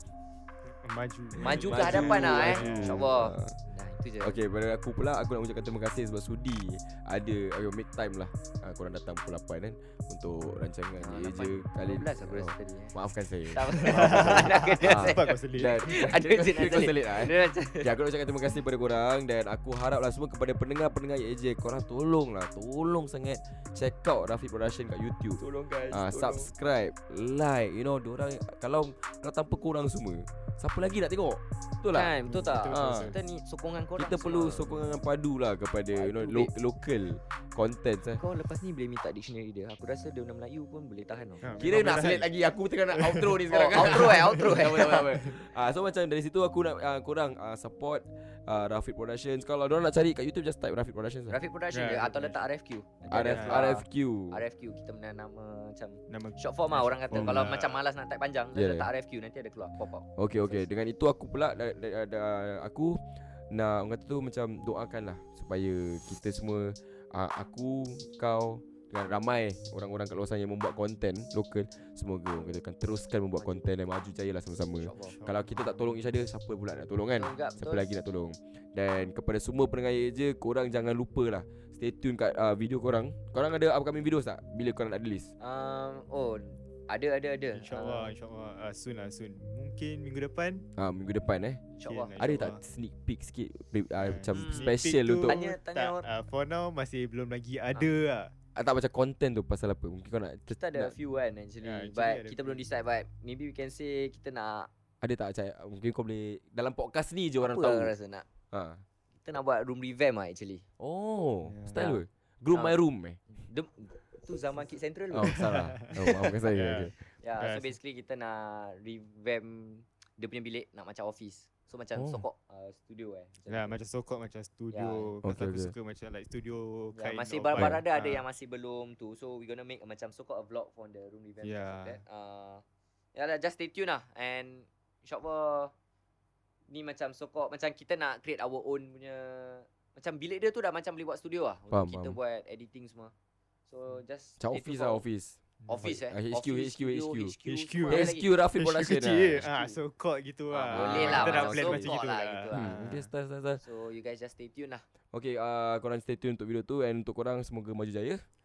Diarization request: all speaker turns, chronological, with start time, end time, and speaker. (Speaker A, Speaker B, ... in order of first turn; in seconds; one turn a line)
Speaker A: 0.6-3.1
Speaker B: 1.4-3.6
Speaker C: 1.4-4.4
Speaker B: 4.2-32.1
Speaker C: 11.0-12.9
Speaker C: 13.5-17.9
Speaker A: 13.8-15.9
Speaker C: 25.4-26.5
Speaker C: 31.9-34.8
Speaker A: 32.3-33.2
Speaker B: 32.7-33.1
Speaker B: 34.0-38.2
Speaker C: 35.9-36.5
Speaker C: 38.2-41.5
Speaker A: 41.4-42.3
Speaker B: 41.6-51.4
Speaker A: 42.9-44.5
Speaker C: 43.5-45.2
Speaker C: 51.3-60.6
Speaker A: 51.7-52.4
Speaker B: 53.1-54.4
Speaker A: 53.3-53.7
Speaker A: 56.1-57.8
Speaker B: 57.1-57.4
Speaker B: 58.5-58.9
Speaker B: 60.2-85.3
Speaker C: 73.4-73.6
Speaker C: 74.8-75.2
Speaker A: 75.2-75.5
Speaker C: 77.2-77.8
Speaker C: 85.4-88.1
Speaker A: 87.5-90.6
Speaker B: 90.8-95.4
Speaker C: 91.8-92.1
Speaker A: 91.8-92.6
Speaker A: 94.0-98.3
Speaker C: 94.3-94.7
Speaker C: 95.2-96.0
Speaker B: 98.5-100.9
Speaker C: 100.5-104.7
Speaker A: 101.6-102.6
Speaker B: 105.0-107.9
Speaker C: 107.4-108.2
Speaker B: 108.5-108.8
Speaker C: 109.2-110.6
Speaker B: 110.8-113.2
Speaker A: 111.4-111.9
Speaker C: 113.3-116.3
Speaker B: 115.1-116.9
Speaker A: 115.2-115.9
Speaker A: 116.5-117.7
Speaker C: 117.2-123.8
Speaker B: 122.0-122.2
Speaker A: 123.5-128.2
Speaker C: 124.7-125.1
Speaker B: 125.2-125.7
Speaker C: 126.9-132.6
Speaker A: 131.4-132.0
Speaker C: 133.1-135.7
Speaker C: 136.7-143.1
Speaker B: 141.7-142.2
Speaker C: 143.7-145.0
Speaker B: 144.4-147.3
Speaker C: 145.7-148.3
Speaker A: 147.4-153.1
Speaker B: 147.9-149.4
Speaker C: 149.4-149.8
Speaker C: 150.5-152.9
Speaker B: 150.7-151.9
Speaker B: 152.5-153.6
Speaker C: 153.6-154.8
Speaker B: 155.1-158.2